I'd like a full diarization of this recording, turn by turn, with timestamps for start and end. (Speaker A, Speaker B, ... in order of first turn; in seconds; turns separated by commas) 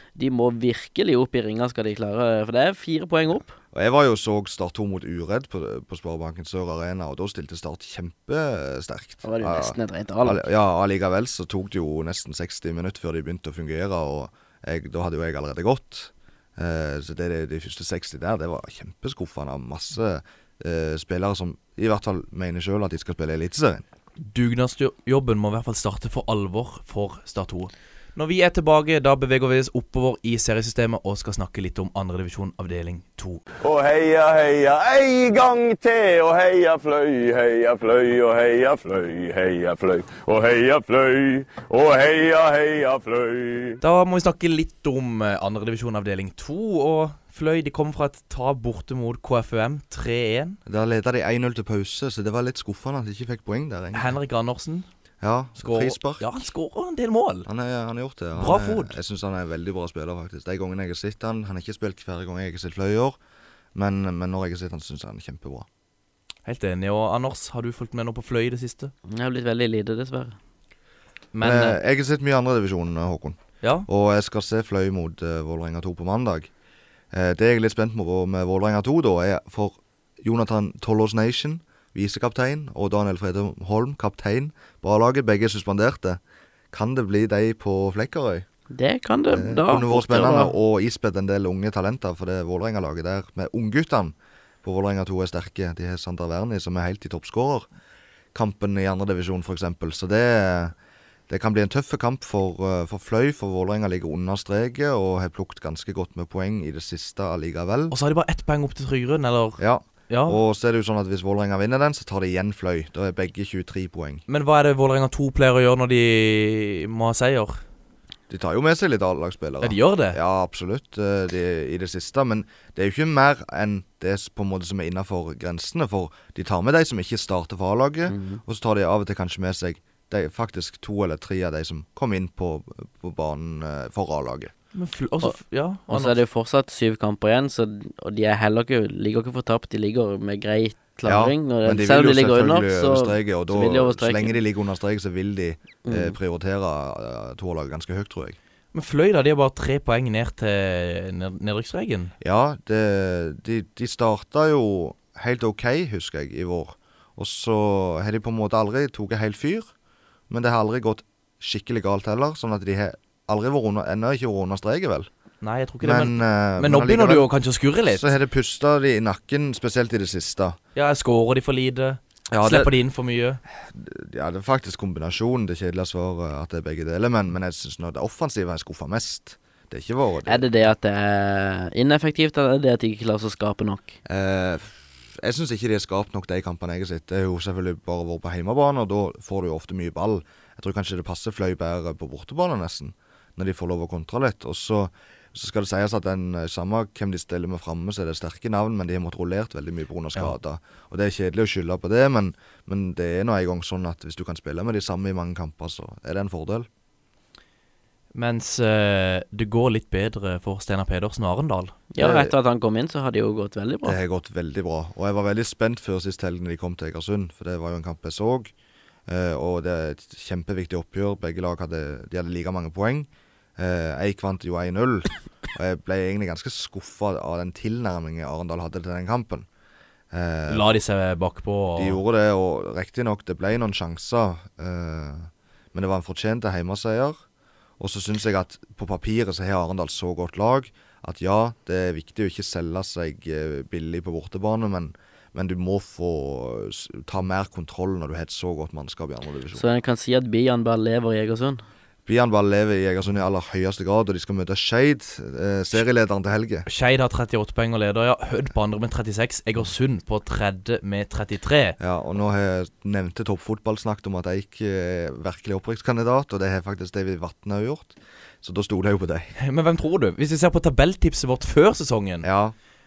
Speaker A: 0.2-3.5, Speaker B: 3.7-23.8, Speaker A: 9.2-10.5, Speaker C: 24.2-33.4, Speaker D: 33.6-43.8, Speaker C: 43.8-50.6, Speaker B: 50.7-54.2, Speaker C: 53.9-54.9, Speaker B: 55.2-56.2, Speaker C: 55.6-57.5, Speaker B: 57.5-63.2, Speaker C: 58.4-59.0, Speaker B: 63.8-65.7, Speaker C: 66.5-68.9, Speaker A: 69.1-70.4, Speaker C: 71.3-71.8, Speaker B: 71.4-76.5, Speaker C: 73.6-73.9, Speaker B: 77.1-86.2, Speaker B: 86.7-88.5, Speaker A: 88.7-90.5, Speaker B: 89.3-97.7, Speaker B: 98.3-100.8, Speaker B: 101.3-108.0, Speaker C: 107.9-110.4, Speaker B: 109.6-114.2, Speaker C: 114.3-117.6, Speaker B: 118.3-134.5, Speaker C: 119.6-120.2, Speaker A: 128.1-128.4, Speaker C: 134.7-136.2, Speaker A: 135.9-144.4, Speaker B: 141.1-148.4, Speaker A: 145.8-146.2, Speaker C: 148.7-152.1, Speaker B: 152.2-159.7, Speaker B: 160.3-165.1, Speaker C: 165.4-168.1, Speaker B: 165.8-167.3, Speaker B: 167.9-170.6, Speaker C: 170.8-173.4, Speaker B: 172.3-172.7, Speaker B: 173.6-180.5, Speaker A: 180.3-184.0, Speaker B: 184.1-206.7, Speaker C: 208.1-211.8, Speaker A: 211.9-214.0, Speaker B: 212.0-212.3, Speaker B: 213.8-218.5, Speaker B: 219.1-229.5, Speaker B: 230.1-230.8, Speaker C: 230.5-232.0, Speaker B: 231.8-237.2, Speaker B: 237.8-249.6, Speaker A: 249.6-251.6, Speaker B: 252.1-256.7, Speaker C: 256.7-261.8, Speaker B: 261.8-269.3, Speaker C: 269.4-272.3, Speaker B: 272.2-272.6